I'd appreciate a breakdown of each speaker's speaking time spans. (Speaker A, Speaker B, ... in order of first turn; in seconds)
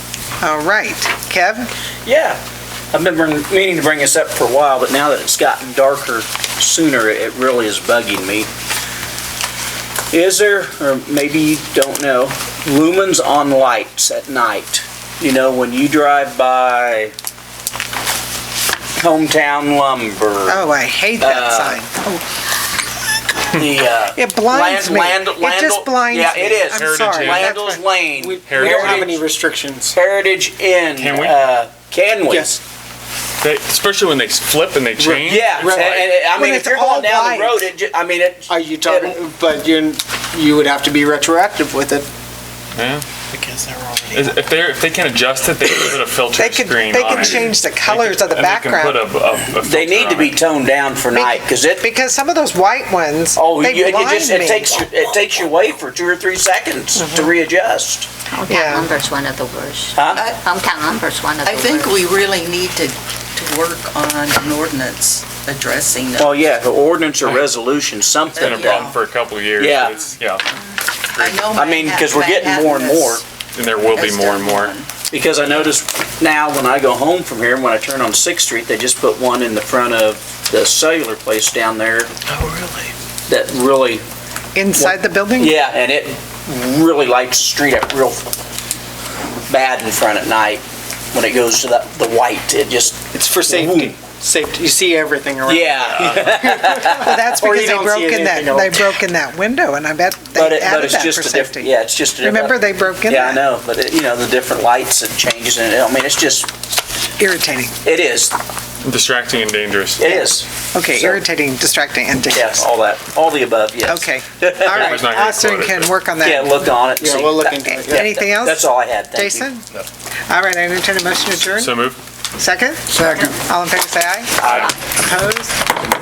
Speaker A: 0.4-1.7, 20.5-22.2, 24.1-27.8, 36.3-37.7, 46.4-49.0, 51.1-54.8, 56.9-57.3, 58.5-58.9, 84.5-85.6, 96.9-103.4, 107.2-107.7, 110.0-112.6, 113.8-116.7, 117.6-119.7, 120.3-121.7, 122.4-125.6
Speaker B: 2.0-2.4, 2.9-8.5, 10.1-17.1, 19.0-20.7, 21.2-21.8, 23.5-29.2, 29.9-32.6, 35.2-39.2, 49.6-51.9, 53.4-58.1, 60.0-60.2, 66.2-68.9, 69.6-70.1, 71.2-73.2, 75.1-82.1, 83.3-84.0, 84.7-88.3, 89.5-94.0, 95.4-97.2, 100.3-106.5, 107.8-108.3, 110.0-111.2, 112.3-115.0, 116.2-119.5, 124.4-124.7
Speaker C: 26.7-27.5, 28.4-29.1, 31.0-31.4, 33.4-36.1, 42.7-43.0, 44.1-50.4, 68.4-70.4, 73.5-74.8, 95.8-96.6, 108.8-110.0, 114.7-115.9, 121.6-122.0, 124.4-124.7
Speaker D: 28.2-30.0, 32.3-32.6, 35.0-35.9, 38.5-42.1, 43.3-44.3, 82.5-82.9, 93.1-98.9, 117.0-118.1, 122.9-123.4
Speaker E: 58.3-62.0
Speaker F: 60.1-60.4, 61.4-66.5, 68.3-69.0, 71.1-73.2, 73.8-74.9